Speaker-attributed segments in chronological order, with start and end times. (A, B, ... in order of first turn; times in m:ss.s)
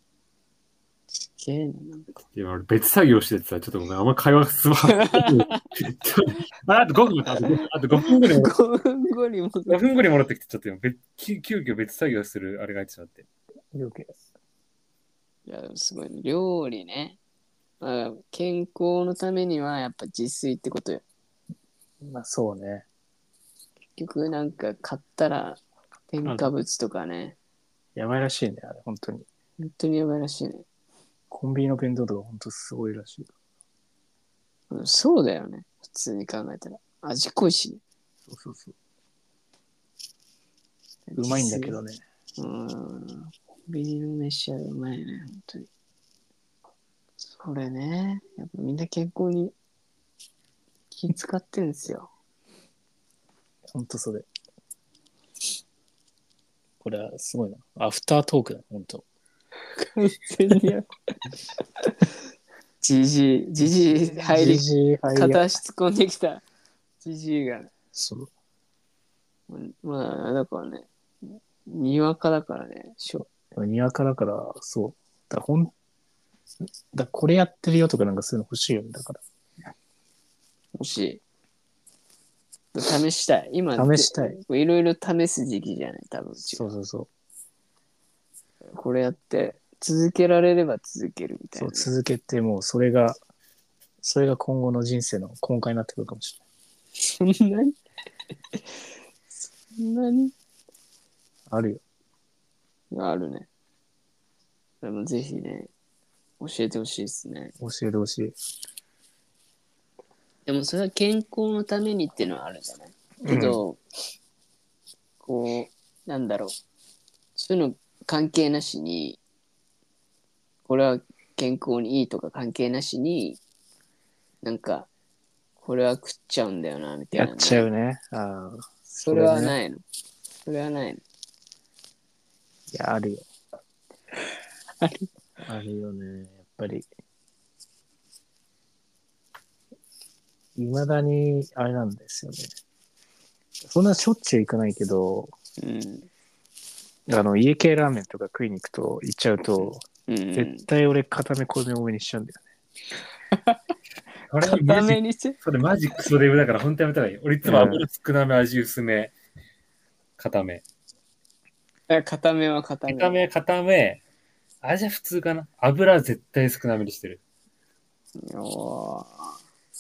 0:01.2-0:02.2 A
0:02.3-0:08.6 B
0:05.0-0:05.6 A
0:07.4-0:09.8 A
0:09.7-0:13.3 B
0:13.7-0:14.1 C
0:15.5-0:17.2 A
0:17.8-0:21.0 A
0:22.0-0:22.9 C
0:24.0-0:27.4 A
0:26.2-0:26.5 C
0:28.0-0:29.3 C
0:29.6-0:30.7 A
0:31.3-0:33.3 C
0:34.7-0:37.8 A
0:38.3-0:38.7 C
0:41.1-0:41.8 A
0:41.2-0:42.0 C
0:42.4-0:45.7 A
0:47.2-0:49.5 A
0:50.9-0:52.1 A
0:53.7-0:54.3 C
0:56.8-0:59.0 C
0:59.8-1:00.9 A
1:01.8-1:02.1 A
1:02.8-1:06.4 A
1:03.6-1:05.5 C
1:07.0-1:07.7 A
1:07.9-1:08.3 C
1:09.5-1:13.3 A
1:13.5-1:15.7 C
1:16.9-1:19.2 C
1:20.8-1:21.2 A
1:22.7-1:26.7 A
1:23.8-1:24.4 C
1:26.5-1:27.1 C
1:28.7-1:31.9 A
1:31.6-1:33.2 C
1:34.0-1:36.4 C
1:37.0-1:37.8 A
1:39.7-1:40.3 A
1:41.5-1:41.8 C
1:42.9-1:43.5 A
1:44.8-1:45.7 A
1:46.4-1:47.5 A
1:47.6-1:48.3 C
1:50.5-1:53.8 A
1:53.2-1:53.6 C
1:55.2-1:56.6 A
1:57.4-1:59.2 A
2:00.7-2:03.4 A
2:04.4-2:04.9 A
2:05.6-2:07.7 A
2:07.2-2:09.6 C
2:09.0-2:09.8 A
2:10.4-2:11.0 A
2:12.7-2:13.3 C
2:14.8-2:15.1 A
2:15.4-2:16.9 C
2:20.6-2:22.5 C
2:23.6-2:25.3 C
2:25.6-2:26.1 A
2:27.1-2:32.4 C
2:30.1-2:30.6 A
2:33.3-2:33.6 A
2:34.3-2:39.1 B
2:34.4-2:35.4 A
2:37.4-2:37.8 C
2:40.2-2:40.6 B
2:41.9-2:43.2 A
2:42.9-2:44.0 B
2:44.6-2:47.2 B
2:48.2-2:49.3 A